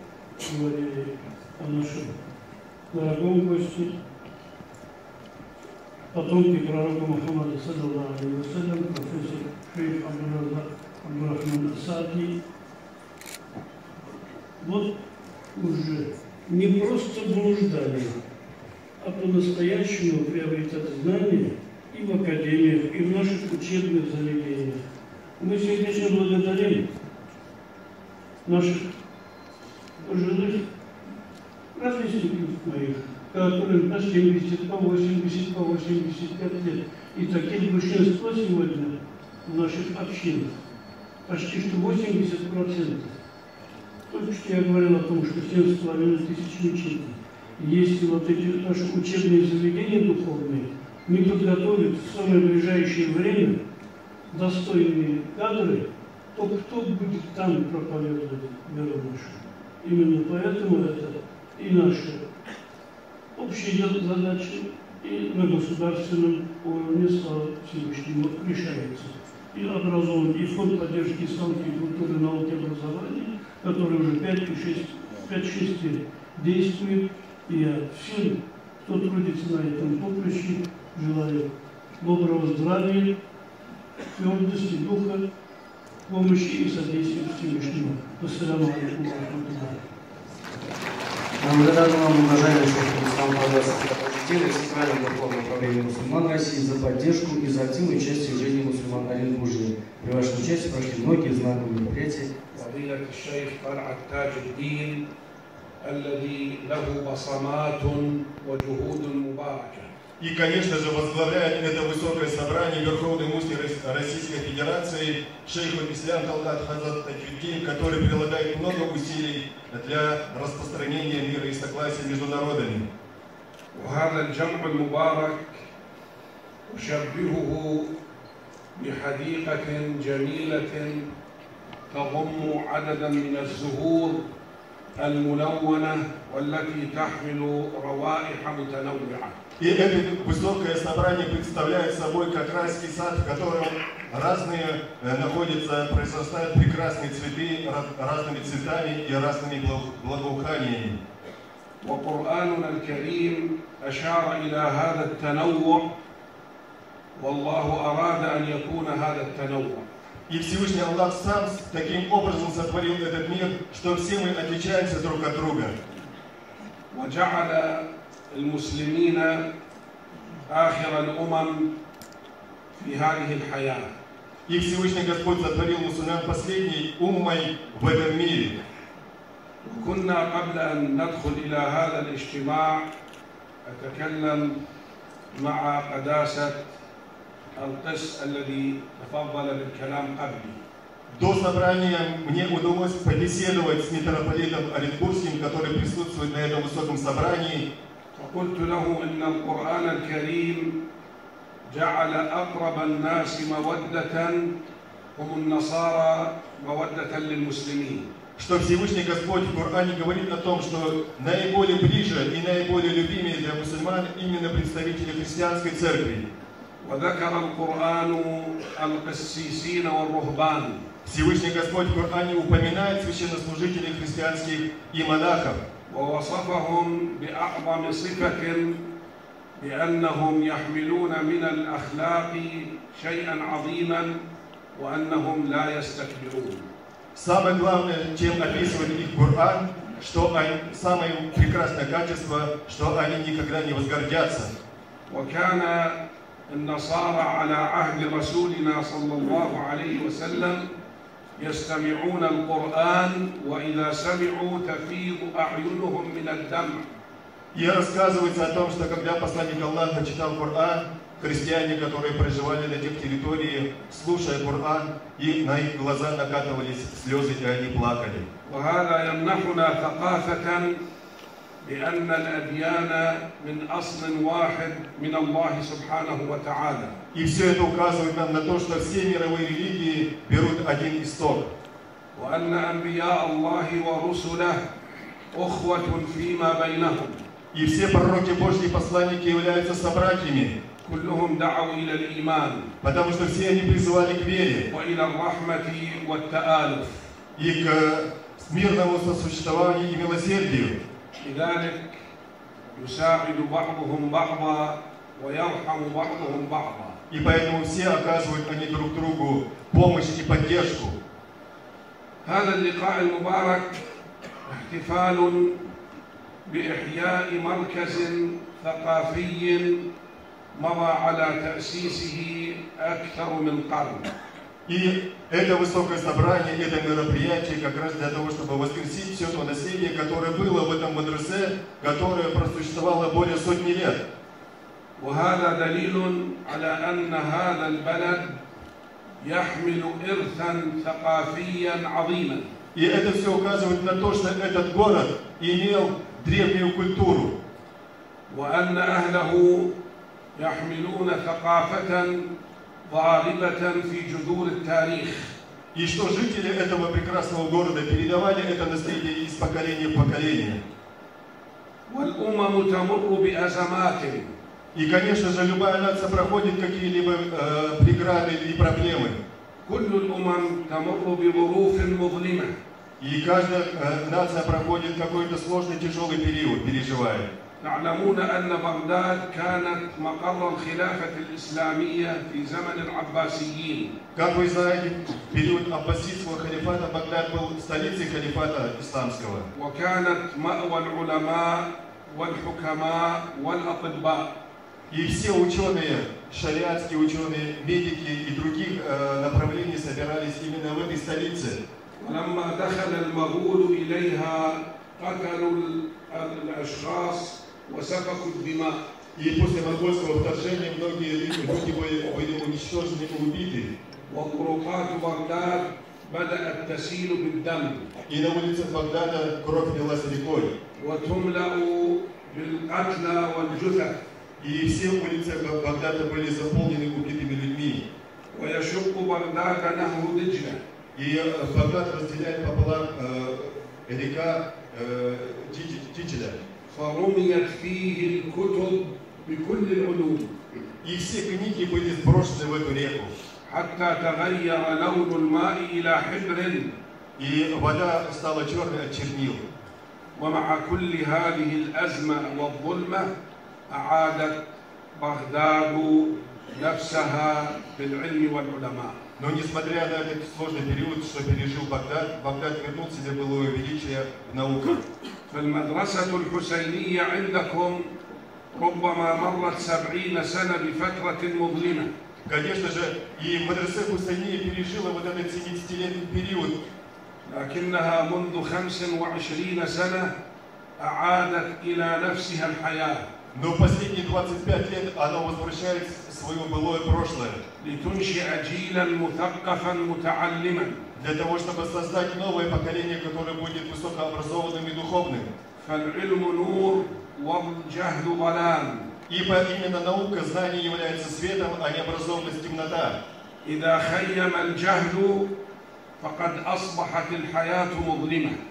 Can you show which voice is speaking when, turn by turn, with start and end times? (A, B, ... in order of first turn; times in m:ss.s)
0:00.4-0:02.2 A
0:02.9-0:04.0 A
0:06.1-0:12.4 A
0:14.6-0:15.0 A
0:15.5-0:18.2 A
0:19.0-0:24.8 A
0:25.4-0:26.9 A
0:28.4-0:28.9 A
0:30.0-0:30.6 A
0:31.7-0:40.6 A
0:41.3-0:43.1 A
0:44.1-0:53.6 A
0:54.3-1:02.2 A
1:03.4-1:21.5 A
1:22.0-1:23.2 A
1:24.1-1:25.2 A
1:26.1-1:29.8 A
1:31.4-1:42.3 B
1:42.5-1:45.0 C
1:45.8-1:49.9 C
1:50.2-2:02.9 D
2:03.7-2:05.6 C
2:06.7-2:07.9 C
2:08.7-2:11.1 C
2:11.9-2:14.2 C
2:15.0-2:19.4 C
2:19.6-2:31.0 D
2:31.8-2:35.9 C
2:37.1-2:39.9 C
2:40.3-2:45.8 D
2:46.9-2:49.4 C
2:50.5-2:51.7 C
2:52.7-2:53.9 C
2:54.5-2:58.6 D
2:59.6-3:02.9 C
3:03.6-3:04.6 C
3:05.3-3:06.7 C
3:07.5-3:10.6 C
3:11.1-3:17.7 D
3:18.1-3:20.8 C
3:21.7-3:24.6 C
3:25.1-3:28.1 C
3:28.4-3:36.2 D
3:36.8-3:40.8 C
3:41.0-3:45.6 D
3:45.9-3:48.8 C
3:49.6-3:54.2 C
3:54.7-3:56.7 C
3:57.1-4:04.5 D
4:05.1-4:10.7 C
4:11.4-4:16.9 C
4:17.5-4:28.3 D
4:28.4-4:30.8 C
4:31.6-4:37.0 C
4:37.1-4:41.5 D
4:42.1-4:44.6 C
4:45.3-4:47.2 C
4:47.5-4:50.6 D
4:50.8-4:52.7 C
4:52.8-4:54.7 D
4:54.7-4:57.1 C
4:57.4-5:00.8 D
5:01.2-5:01.9 C
5:02.7-5:07.0 C
5:07.1-5:11.0 D
5:12.2-5:13.8 C
5:14.4-5:15.6 C
5:16.4-5:19.9 C
5:20.5-5:24.1 C
5:24.6-5:34.0 D
5:35.0-5:38.4 C
5:39.2-5:42.5 C
5:42.7-5:47.4 D
5:48.3-5:49.7 C
5:50.3-5:52.3 C
5:52.8-5:55.3 C
5:55.7-6:00.6 D
6:01.9-6:04.3 C
6:04.7-6:09.2 D
6:09.6-6:12.5 C
6:13.0-6:17.3 D
6:17.6-6:24.0 C
6:24.1-6:29.5 D
6:29.5-6:34.3 C
6:34.9-6:41.6 D
6:42.0-6:48.8 C
6:49.1-6:53.7 D
6:54.1-6:57.9 C
6:58.1-7:00.6 D
7:00.7-7:04.0 C
7:04.4-7:07.9 D
7:08.3-7:10.6 C
7:10.9-7:16.4 D
7:16.7-7:20.4 C
7:20.8-7:23.1 D
7:23.4-7:26.8 C
7:27.2-7:29.4 D
7:30.2-7:33.1 C
7:33.7-7:39.0 C
7:39.2-7:44.8 D
7:45.3-7:47.9 C
7:48.5-7:51.9 C
7:52.2-7:56.6 D
7:57.2-8:00.1 C
8:00.8-8:03.0 C
8:03.3-8:07.4 D
8:07.6-8:10.8 C
8:11.0-8:15.3 D
8:15.6-8:18.9 C
8:19.1-8:23.0 D
8:23.4-8:25.3 C
8:26.0-8:28.4 C